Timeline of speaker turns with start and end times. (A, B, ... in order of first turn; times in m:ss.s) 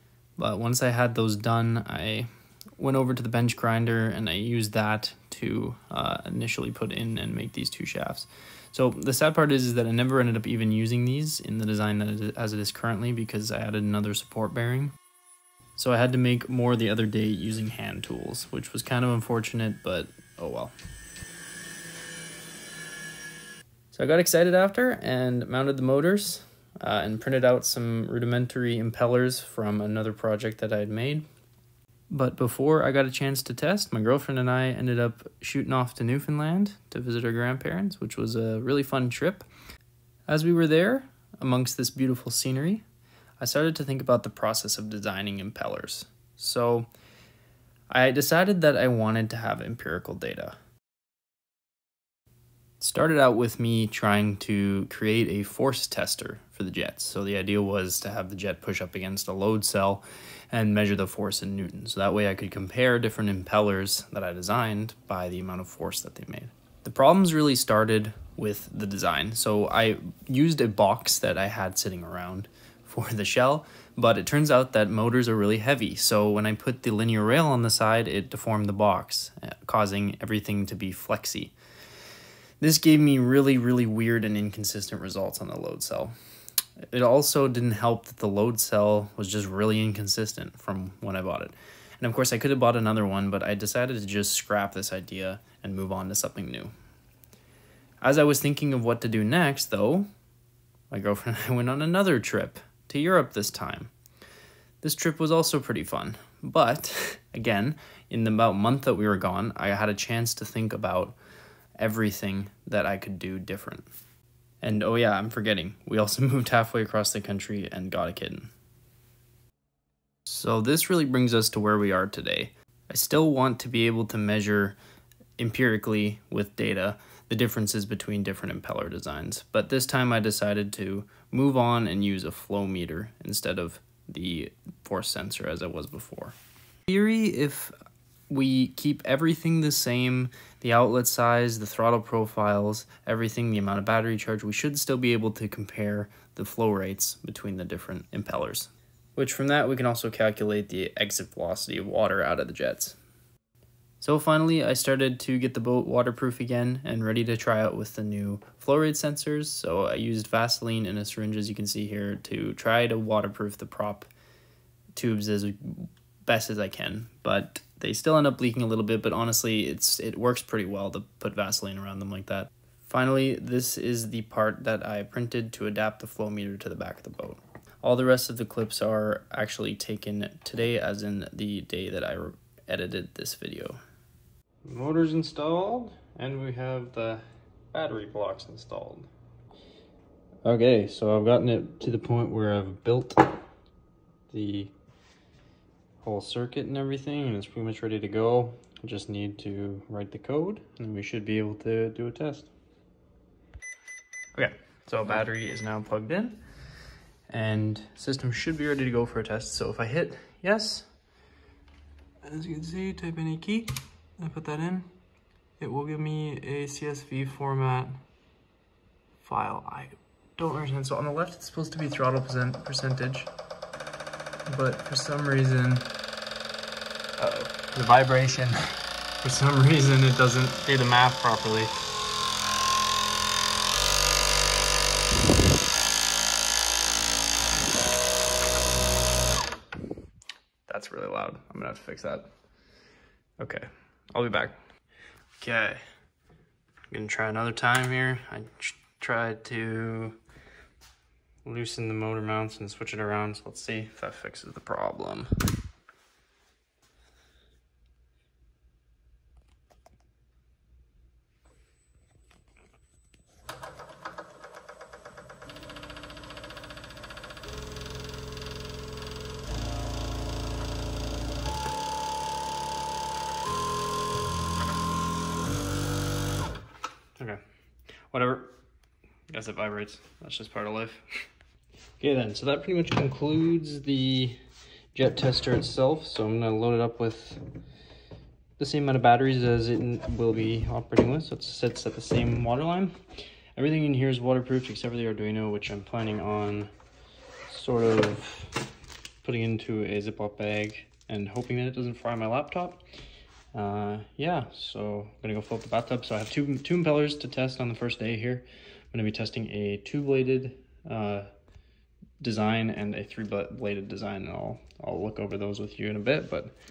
0:00.4-0:14.9 A
0:15.8-0:20.7 A
0:23.9-0:31.2 A
0:32.1-0:39.5 A
0:40.3-0:42.8 A
0:43.4-0:46.9 A
0:47.9-0:50.6 A
0:52.8-1:21.6 A
1:22.6-1:26.1 A
1:26.9-1:36.7 A
1:38.0-1:40.1 A
1:40.9-1:43.9 A
1:44.8-1:51.2 A
1:51.8-1:53.9 A
1:54.6-1:58.5 A
2:00.3-2:04.8 A
2:05.4-2:16.4 A
2:16.9-2:17.7 A
2:18.3-2:33.0 A
2:34.0-2:44.1 A
2:45.0-3:03.8 A
3:04.6-3:09.1 A
3:10.4-3:13.4 A
3:14.3-3:14.7 A
3:16.0-3:22.5 A
3:24.4-3:26.4 A
3:27.3-3:30.9 A
3:32.2-3:34.9 A
3:35.6-3:38.0 A
3:39.2-3:43.3 A
3:44.5-3:46.0 A
3:47.2-3:48.6 A
3:49.2-3:51.7 A
4:00.7-4:02.3 A
4:03.4-4:04.6 A
4:05.4-4:05.8 A
4:06.9-4:10.2 A
4:11.4-4:15.4 A
4:37.2-4:37.4 A
4:38.1-4:38.5 A
4:39.3-4:41.0 A
4:42.0-4:44.4 A
4:44.9-4:47.4 A
4:48.6-4:53.0 A
4:53.6-4:56.7 A
4:57.5-4:58.6 A
4:59.2-5:02.8 A
5:03.5-5:11.3 A
5:12.2-5:16.6 A